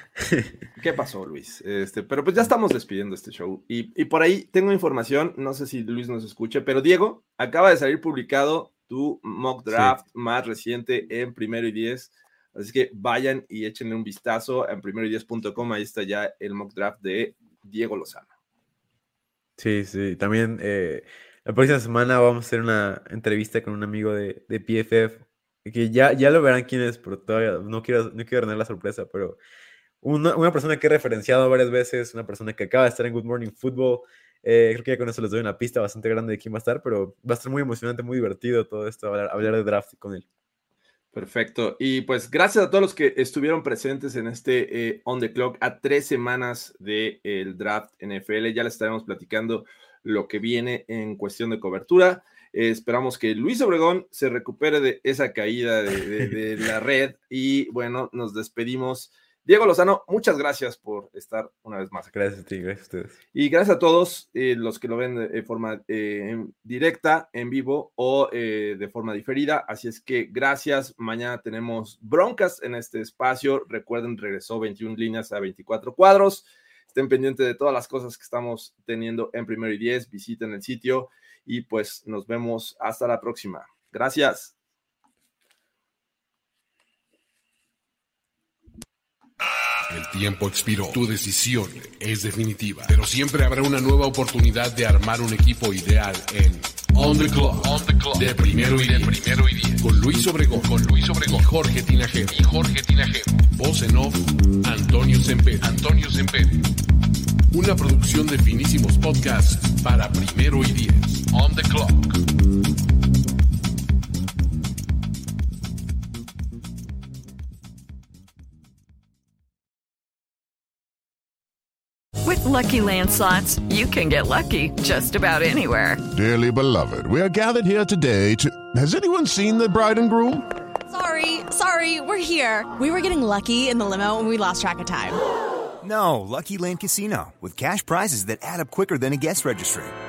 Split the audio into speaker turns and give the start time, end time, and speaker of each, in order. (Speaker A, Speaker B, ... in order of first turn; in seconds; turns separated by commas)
Speaker A: 0.2-0.5, Speaker B: 0.8-18.3, Speaker A: 19.6-29.4, Speaker A: 30.0-40.2, Speaker B: 41.1-62.1, Speaker A: 62.1-63.1, Speaker B: 63.3-84.5, Speaker C: 89.9-106.7, Speaker C: 107.5-112.2, Speaker D: 122.2-126.0, Speaker E: 126.1-130.5, Speaker F: 130.9-135.2, Speaker G: 135.8-139.9